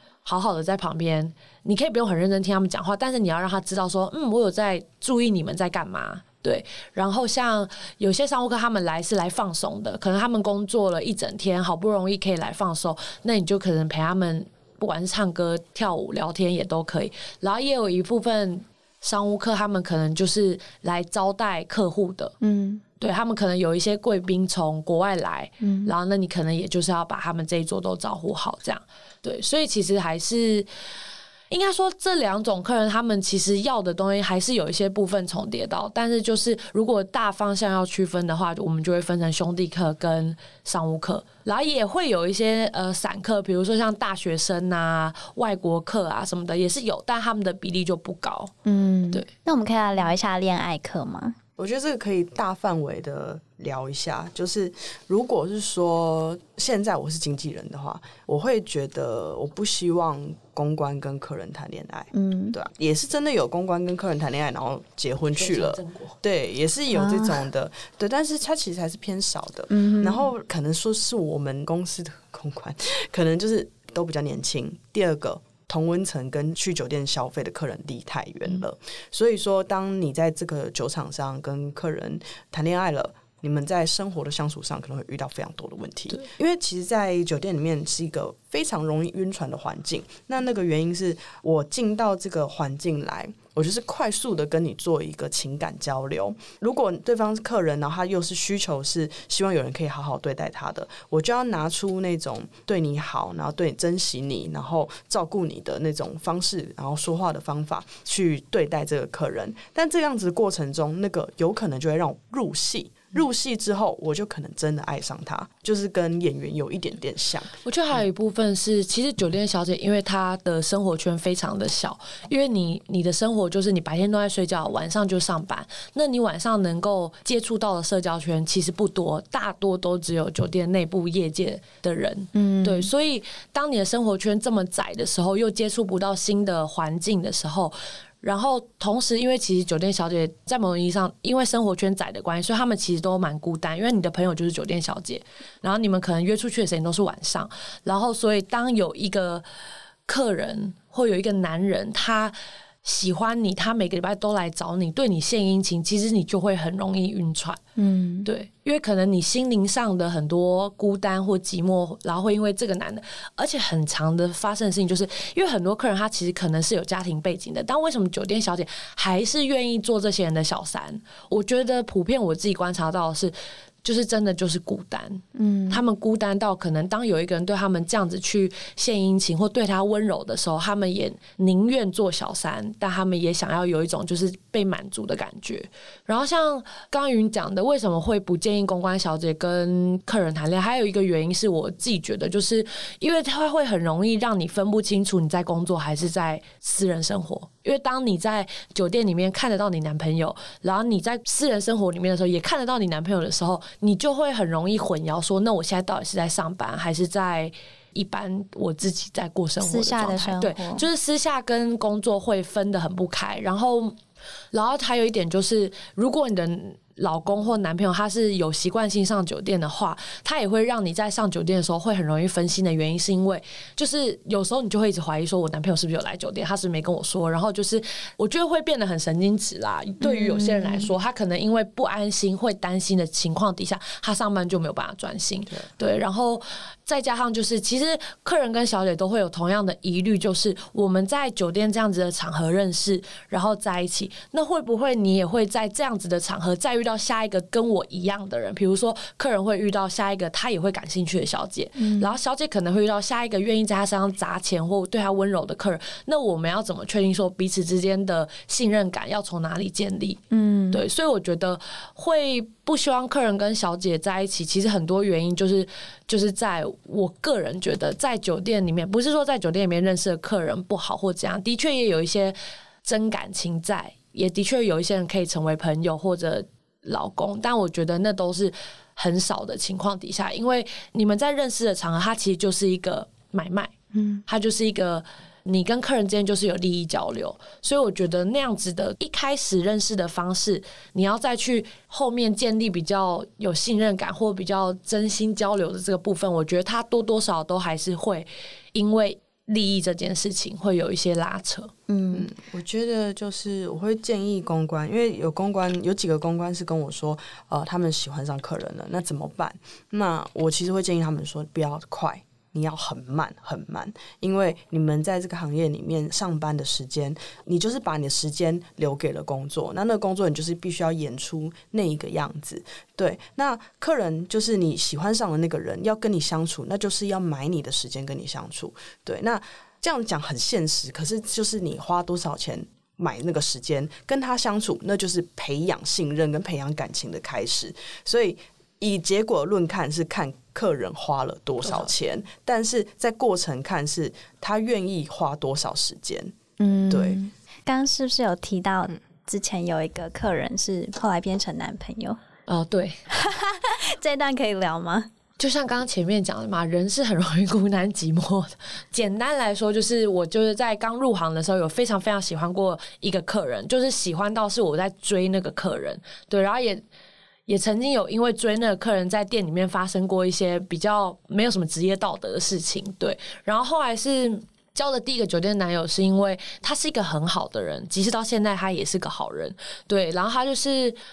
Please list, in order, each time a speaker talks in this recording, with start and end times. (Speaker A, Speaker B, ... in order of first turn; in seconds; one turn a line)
Speaker A: 0.2-22.4
Speaker B: 22.4-22.8
Speaker A: 23.0-30.7
Speaker B: 25.6-25.9
Speaker A: 31.5-48.5
Speaker B: 48.6-51.4
Speaker C: 51.6-117.5
Speaker B: 62.1-62.6
Speaker A: 65.4-66.2
Speaker B: 66.9-67.4
Speaker B: 69.7-70.3
Speaker A: 117.7-149.4
Speaker B: 132.3-132.9
Speaker A: 150.1-157.6
Speaker B: 157.8-158.3
Speaker A: 158.2-214.0
Speaker B: 175.3-175.8
Speaker B: 209.6-210.9
Speaker A: 214.5-260.2
Speaker B: 230.0-230.9
Speaker B: 251.8-252.1
Speaker B: 260.3-260.8
Speaker A: 260.7-283.7
Speaker B: 283.9-284.2
Speaker A: 284.3-301.7
Speaker B: 301.9-302.3
Speaker C: 302.1-346.4
Speaker B: 346.6-352.2
Speaker C: 346.9-347.2
Speaker A: 352.5-353.0
Speaker B: 353.1-355.1
Speaker A: 355.4-366.8
Speaker A: 367.5-381.0